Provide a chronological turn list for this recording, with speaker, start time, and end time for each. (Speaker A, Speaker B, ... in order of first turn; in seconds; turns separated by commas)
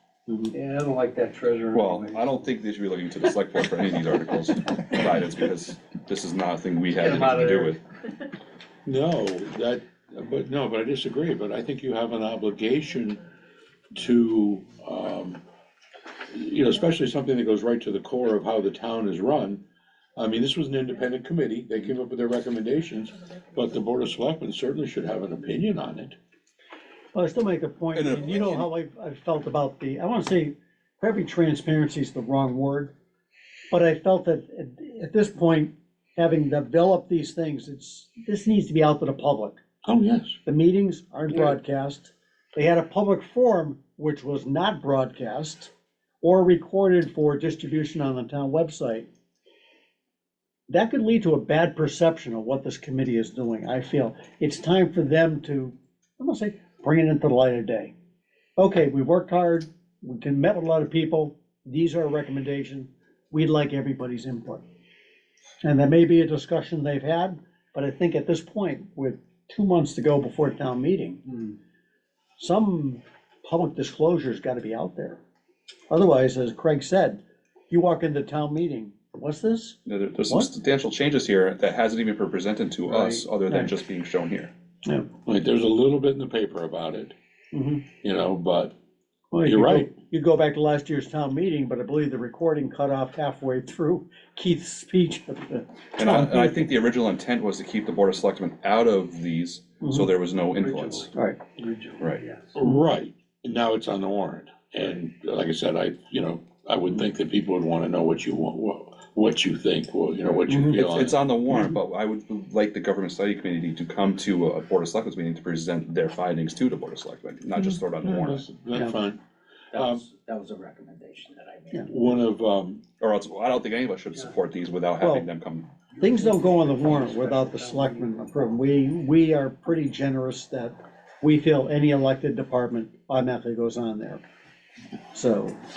Speaker A: 0.5-2.4, Speaker B: 1.7-7.8, Speaker A: 7.0-7.7, Speaker C: 8.8-13.2, Speaker C: 13.9-15.4, Speaker C: 16.3-19.6, Speaker C: 20.1-26.2, Speaker D: 27.1-32.9, Speaker B: 27.9-28.6, Speaker D: 33.7-39.6, Speaker C: 39.8-40.4, Speaker D: 40.5-45.7, Speaker D: 46.2-49.1, Speaker D: 50.7-57.9, Speaker D: 58.6-64.6, Speaker D: 65.6-71.2, Speaker D: 72.4-75.2, Speaker D: 75.9-80.5, Speaker B: 79.8-84.5, Speaker D: 83.0-83.7, Speaker C: 85.2-87.1, Speaker D: 87.5-87.8, Speaker C: 88.0-88.7, Speaker D: 89.3-96.7, Speaker C: 89.4-89.9, Speaker B: 96.0-101.1, Speaker D: 99.8-100.1, Speaker A: 100.5-102.5, Speaker D: 101.1-101.4, Speaker C: 102.5-111.2, Speaker D: 110.5-110.8, Speaker B: 110.7-118.4, Speaker C: 117.5-119.2, Speaker D: 118.7-119.0, Speaker E: 119.7-122.2, Speaker C: 119.7-120.0, Speaker C: 121.8-122.8, Speaker B: 123.0-125.7, Speaker E: 124.1-124.4, Speaker D: 125.0-125.3, Speaker E: 125.9-128.4, Speaker D: 126.0-134.2, Speaker D: 135.1-135.6